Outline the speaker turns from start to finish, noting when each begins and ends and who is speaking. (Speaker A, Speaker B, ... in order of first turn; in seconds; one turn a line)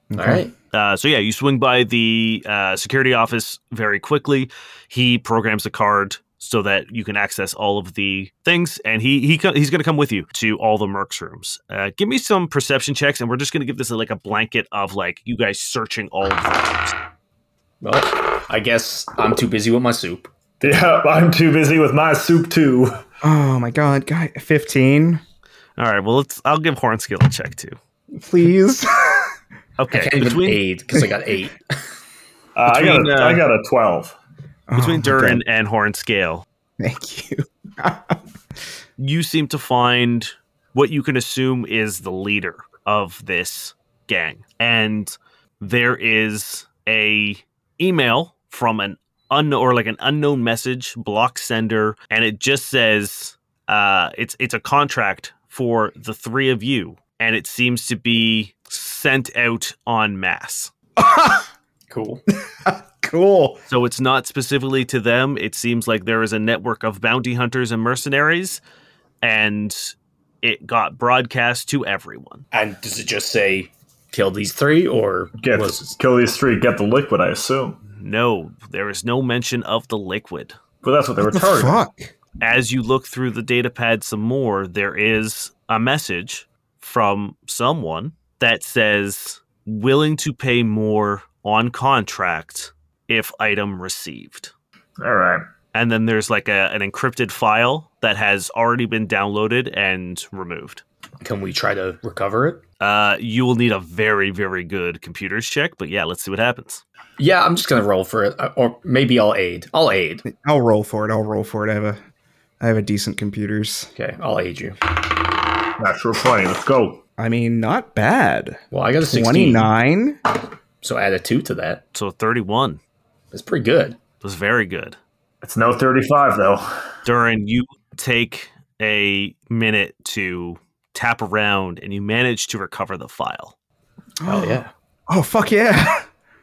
Speaker A: 0.1-0.5
Speaker B: 0.2-0.5
Speaker C: 0.7-16.9
Speaker B: 17.8-20.3
Speaker D: 20.6-23.0
Speaker A: 23.2-25.2
Speaker C: 25.8-27.8
Speaker A: 28.2-29.3
Speaker C: 29.8-30.6
Speaker B: 29.9-31.6
Speaker D: 32.6-34.2
Speaker C: 32.7-33.4
Speaker A: 34.7-35.4
Speaker C: 34.8-36.5
Speaker A: 36.8-38.2
Speaker C: 39.0-60.7
Speaker A: 61.0-61.5
Speaker B: 61.9-62.2
Speaker A: 62.6-63.6
Speaker C: 63.7-68.6
Speaker C: 69.2-72.4
Speaker B: 72.5-76.0
Speaker D: 75.4-77.8
Speaker C: 77.9-80.6
Speaker D: 80.8-81.8
Speaker A: 81.2-82.1
Speaker C: 82.4-94.5
Speaker D: 95.0-95.4
Speaker C: 95.7-100.8
Speaker B: 101.2-102.6
Speaker C: 102.8-106.8
Speaker B: 107.2-110.2
Speaker A: 110.3-112.0
Speaker A: 112.6-113.9
Speaker B: 114.0-114.8
Speaker D: 115.8-117.0
Speaker A: 117.2-120.2
Speaker B: 118.7-119.7
Speaker B: 120.8-121.8
Speaker C: 121.9-122.8
Speaker B: 123.3-124.0
Speaker C: 124.2-125.0
Speaker D: 125.4-126.7
Speaker C: 127.0-133.6
Speaker A: 134.2-136.1
Speaker B: 134.3-134.7